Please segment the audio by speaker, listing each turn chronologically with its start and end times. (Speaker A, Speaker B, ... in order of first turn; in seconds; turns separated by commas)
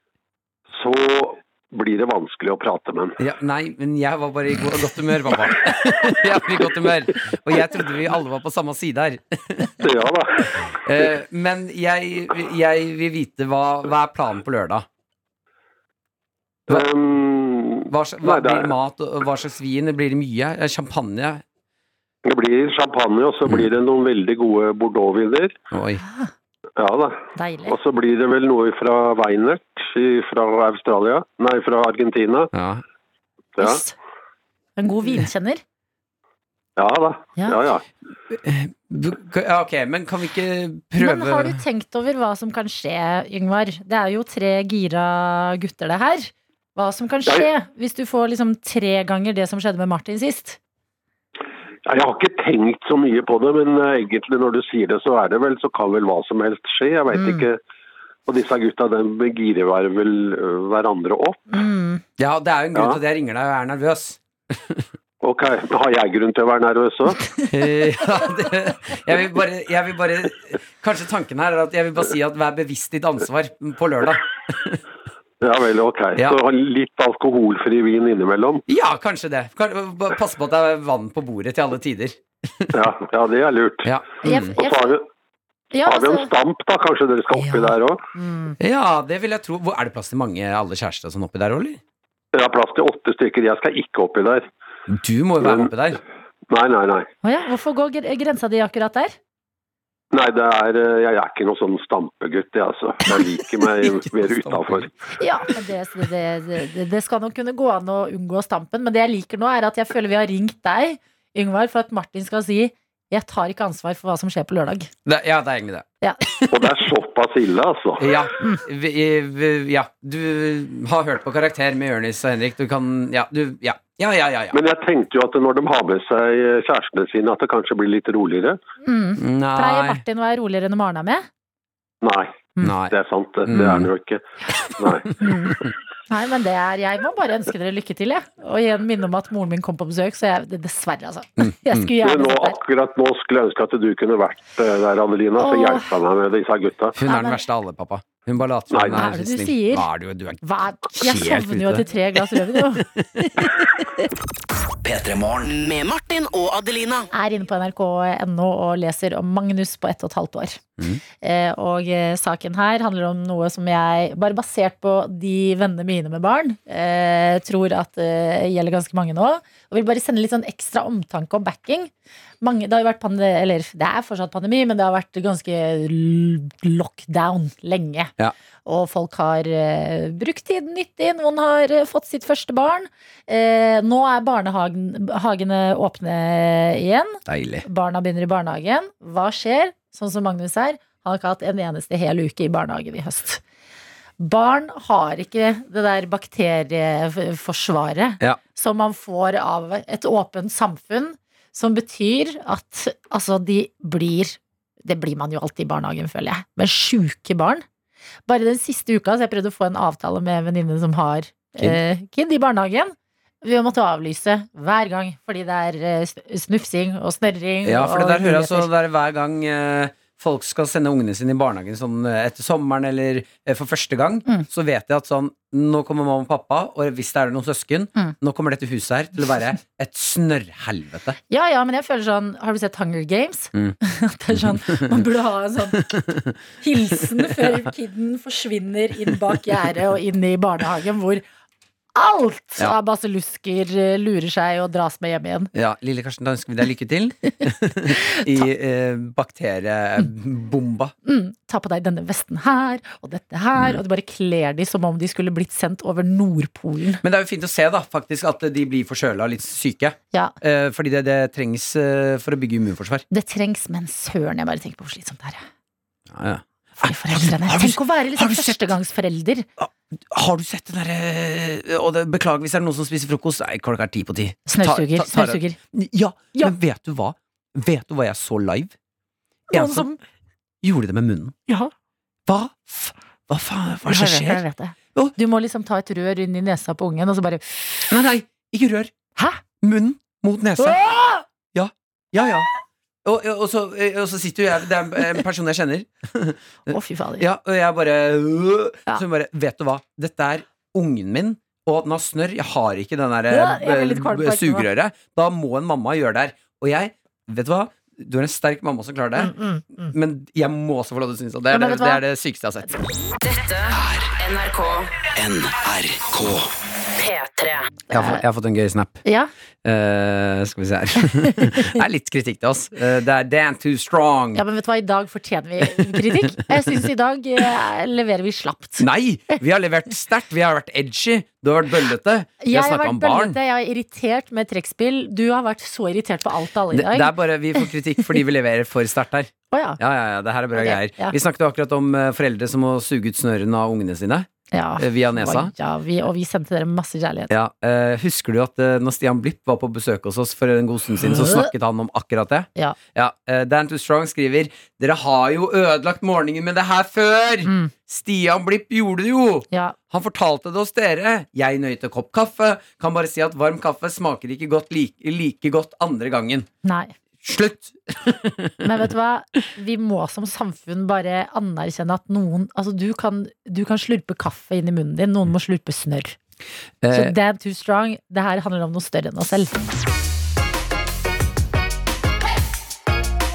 Speaker A: 0.8-3.2, Speaker B: 3.2-9.8, Speaker A: 9.8-10.6, Speaker B: 10.7-14.9, Speaker A: 16.7-18.7, Speaker B: 17.9-21.4, Speaker A: 22.2-25.6, Speaker B: 25.7-26.0, Speaker C: 26.0-26.3, Speaker A: 26.8-32.5, Speaker C: 27.4-27.8, Speaker B: 32.5-32.8, Speaker A: 33.6-33.8, Speaker C: 33.6-33.9, Speaker C: 34.8-35.6, Speaker A: 36.8-37.8, Speaker B: 38.3-41.6, Speaker C: 41.0-50.6, Speaker A: 51.9-57.6, Speaker C: 57.1-57.5, Speaker A: 58.3-61.5, Speaker C: 61.5-62.0, Speaker B: 62.2-64.8, Speaker A: 65.2-67.2, Speaker B: 67.5-74.8, Speaker A: 75.4-78.6, Speaker B: 78.7-82.7, Speaker A: 82.7-83.9, Speaker B: 83.8-84.5, Speaker C: 84.2-85.0, Speaker A: 84.6-85.0, Speaker C: 85.7-86.3, Speaker A: 85.9-88.0, Speaker C: 87.4-88.5, Speaker B: 88.6-91.8, Speaker A: 92.3-94.5, Speaker B: 94.9-96.0, Speaker A: 95.4-95.7, Speaker A: 96.5-97.1, Speaker C: 97.2-99.2, Speaker A: 100.1-104.9, Speaker B: 103.7-105.1, Speaker C: 105.2-114.9, Speaker B: 115.1-115.9, Speaker A: 116.5-118.1, Speaker B: 118.0-124.6, Speaker A: 124.5-128.6, Speaker C: 128.8-131.3, Speaker B: 129.2-130.0, Speaker A: 132.0-134.2, Speaker B: 132.6-132.9, Speaker B: 133.5-133.9, Speaker A: 134.8-135.1, Speaker C: 135.2-135.6, Speaker C: 136.1-142.6, Speaker B: 141.4-141.8, Speaker A: 142.0-147.0, Speaker C: 145.4-145.9, Speaker B: 147.0-153.5, Speaker C: 147.0-147.4, Speaker C: 148.9-149.9, Speaker C: 150.4-154.0, Speaker D: 154.8-155.5, Speaker E: 155.5-157.1, Speaker C: 157.1-160.6, Speaker C: 161.2-171.9, Speaker C: 172.4-178.1, Speaker C: 178.7-193.4, Speaker B: 187.3-187.7, Speaker C: 194.2-207.7, Speaker C: 208.3-218.7, Speaker B: 217.7-231.2, Speaker C: 231.3-235.9, Speaker B: 235.7-236.4, Speaker C: 236.6-241.2, Speaker C: 241.9-245.5, Speaker B: 245.5-250.9, Speaker C: 251.1-257.0, Speaker B: 257.0-263.1, Speaker C: 263.1-265.4, Speaker B: 266.1-268.7, Speaker C: 266.8-269.5, Speaker B: 269.6-278.7, Speaker C: 274.5-275.6, Speaker C: 279.5-280.0, Speaker B: 279.5-279.9, Speaker B: 280.6-281.4, Speaker B: 282.3-284.4, Speaker C: 283.9-287.6, Speaker B: 287.9-288.9, Speaker B: 289.6-290.8, Speaker C: 290.6-291.2, Speaker B: 291.5-292.5, Speaker B: 293.1-296.4, Speaker C: 296.7-297.2, Speaker B: 297.2-312.8, Speaker C: 303.3-304.7, Speaker C: 309.2-309.7, Speaker C: 311.5-312.0, Speaker E: 313.3-313.6, Speaker D: 313.6-316.5, Speaker E: 314.3-314.7, Speaker E: 317.1-317.6, Speaker C: 317.9-318.2, Speaker B: 317.9-319.0, Speaker C: 319.1-319.3, Speaker B: 319.6-324.4, Speaker C: 321.3-321.8, Speaker C: 324.4-328.9, Speaker B: 325.9-326.4, Speaker B: 328.8-333.4, Speaker C: 332.4-337.7, Speaker B: 336.7-345.5, Speaker C: 339.5-339.8, Speaker C: 340.6-341.1, Speaker C: 344.5-347.3, Speaker B: 347.3-366.5, Speaker C: 351.2-351.5, Speaker C: 357.4-357.7, Speaker C: 359.5-359.8, Speaker C: 366.6-366.9, Speaker B: 367.2-368.6, Speaker C: 368.6-376.2, Speaker B: 376.8-377.1, Speaker C: 376.9-379.5